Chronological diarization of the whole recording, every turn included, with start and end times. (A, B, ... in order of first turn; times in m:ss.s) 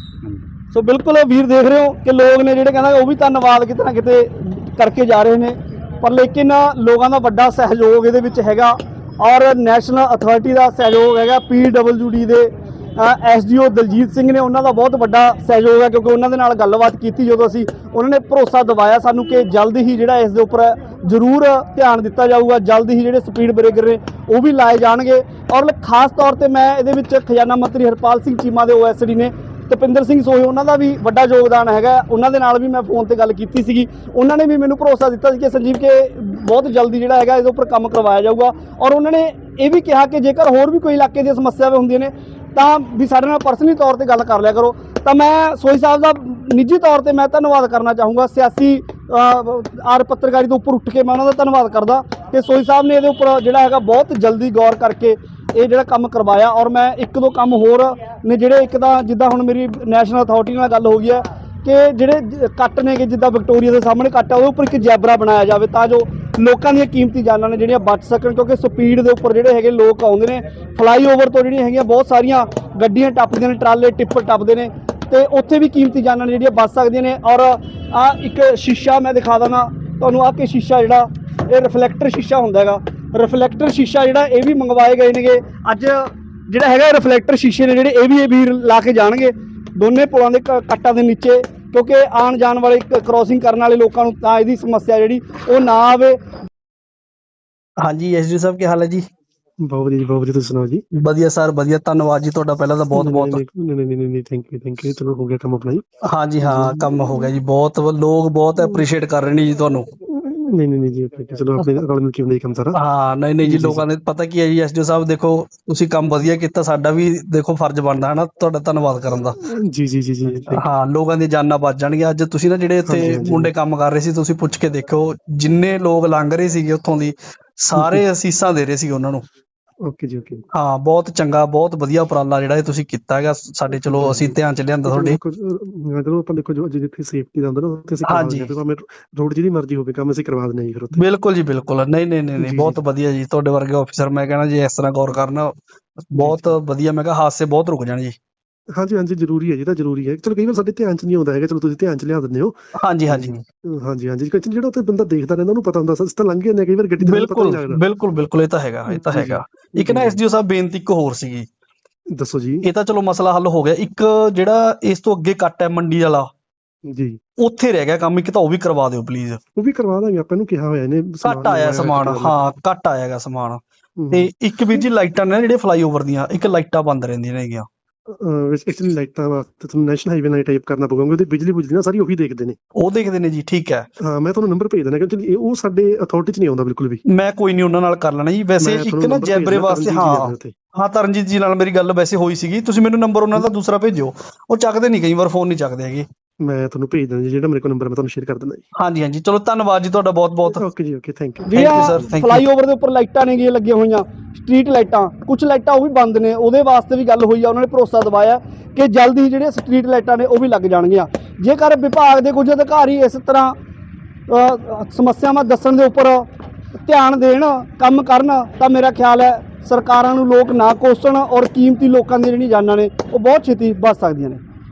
0:00.7-1:36.2 A
1:37.8-1:39.0 B
1:39.6-1:40.8 C
1:41.0-1:43.4 B
1:42.9-1:45.8 C
1:46.1-1:49.9 B
1:46.4-1:47.3 C
1:50.1-1:52.8 C
1:52.7-1:59.4 B
1:53.4-1:53.8 C
1:59.4-2:00.6 C
2:00.5-2:09.2 B
2:02.9-2:03.5 C
2:07.7-2:08.0 C
2:09.8-2:10.4 C
2:10.5-2:15.2 B
2:13.7-2:14.3 C
2:14.8-2:21.0 C
2:18.0-2:18.5 B
2:21.0-2:28.1 B
2:22.4-2:22.8 C
2:26.2-2:26.6 C
2:28.8-2:32.5 C
2:32.8-2:33.4 B
2:33.1-2:37.8 C
2:37.0-2:41.5 B
2:38.9-2:40.2 C
2:42.1-2:42.6 C
2:42.6-2:46.3 B
2:46.9-2:47.2 C
2:47.4-2:49.4 B
2:49.6-2:52.4 C
2:51.2-2:53.6 B
2:54.0-2:54.3 C
2:54.1-2:57.7 B
2:58.2-3:02.6 C
3:02.8-3:03.9 B
3:04.0-3:07.0 C
3:07.1-3:16.0 B
3:08.6-3:10.5 C
3:16.4-3:18.6 C
3:18.8-3:20.6 B
3:20.5-3:21.9 C
3:21.5-3:33.5 A
3:21.5-3:22.5 B
3:34.3-3:36.2 A
3:36.8-3:44.4 A